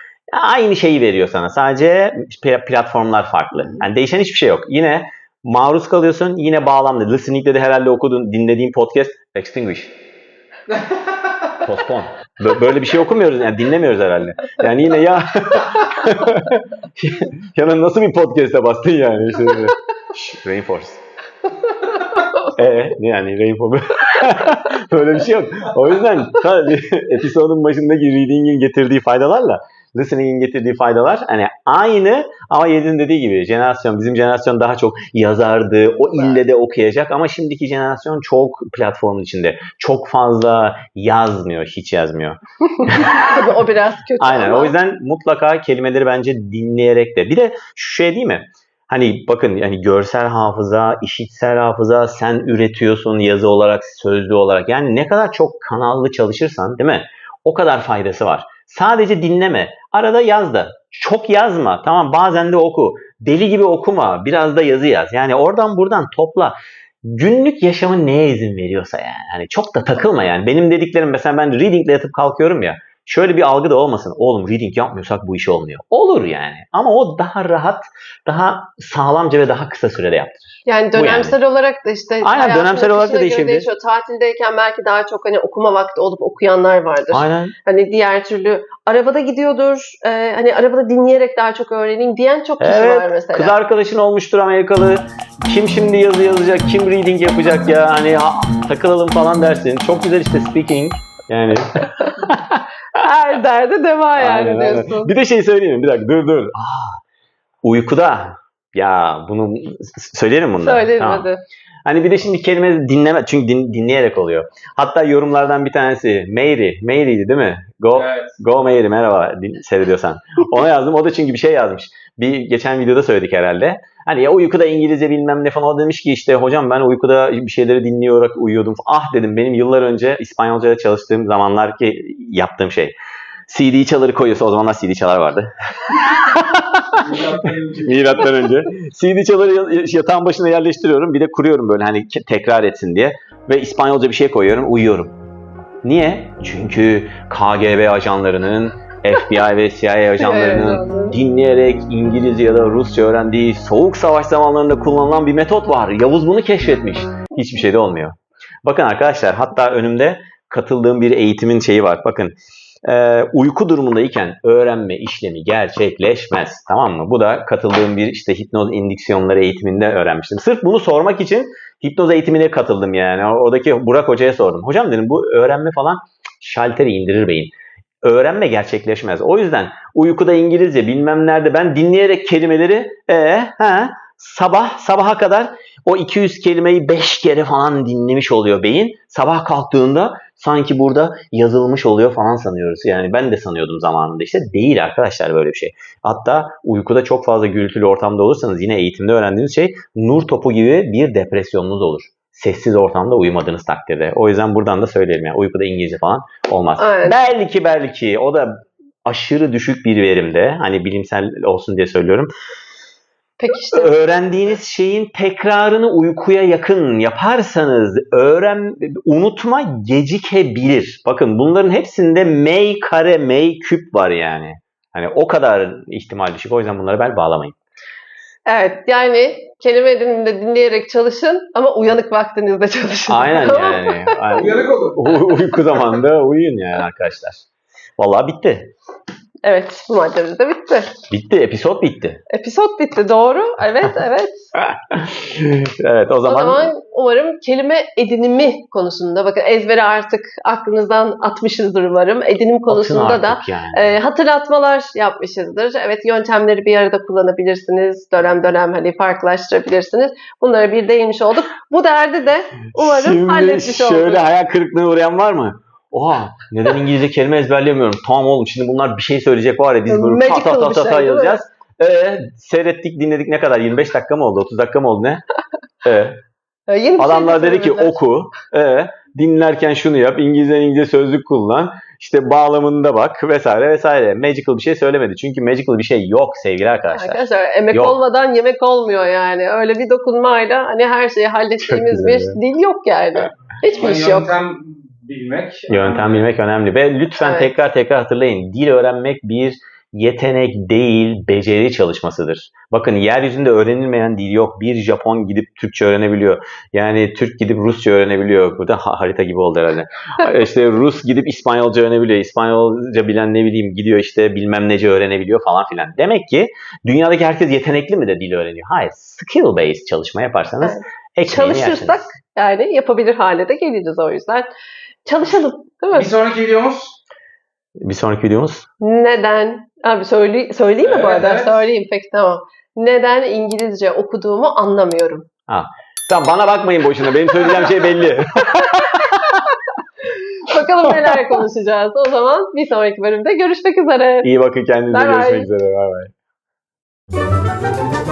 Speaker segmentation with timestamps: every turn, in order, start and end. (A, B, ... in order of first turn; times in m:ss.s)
0:00.3-0:09.9 A
0:11.6-0:21.0 A
0:21.9-0:22.4 B
0:22.5-0:43.4 A
0:42.8-0:44.7 B
0:44.2-1:21.4 A
1:20.6-1:33.6 B
1:22.2-1:23.7 A
1:27.1-1:27.5 A
1:32.6-1:42.6 A
1:43.0-1:45.1 B
1:44.2-1:47.0 A
1:47.6-1:51.2 A
1:50.6-1:51.4 B
1:51.9-2:13.0 A
1:58.0-1:58.3 C
2:13.5-2:17.1 A
2:16.9-2:18.2 C
2:17.8-2:25.2 A
2:25.8-2:57.5 A
2:30.2-2:31.2 B
2:58.0-3:28.5 A
3:26.8-3:27.2 B
3:29.0-3:32.3 A
3:33.4-3:34.0 B
3:33.7-3:47.5 A
3:48.5-3:54.3 B
3:53.1-3:57.4 A
3:54.4-3:55.1 C
3:58.0-3:58.7 A
3:59.4-4:00.9 B
4:01.1-4:02.2 A
4:02.3-4:04.5 B
4:04.6-4:06.7 A
4:06.2-4:24.2 B
4:12.7-4:13.9 A
4:22.8-4:35.2 A
4:29.9-4:31.4 B
4:35.8-4:36.2 A
4:36.7-4:38.0 B
4:37.0-4:48.0 A
4:46.9-4:54.4 B
4:51.6-4:52.4 A
4:53.6-4:56.3 C
4:55.7-5:22.1 A
4:57.2-4:57.5 B
5:20.6-5:24.5 B
5:25.0-5:26.2 B
5:25.9-5:26.9 C
5:27.8-5:28.6 A
5:28.8-5:35.2 B
5:30.8-5:31.6 C
5:35.5-5:39.4 A
5:40.1-5:44.3 B
5:44.2-5:46.1 A
5:44.9-5:45.5 B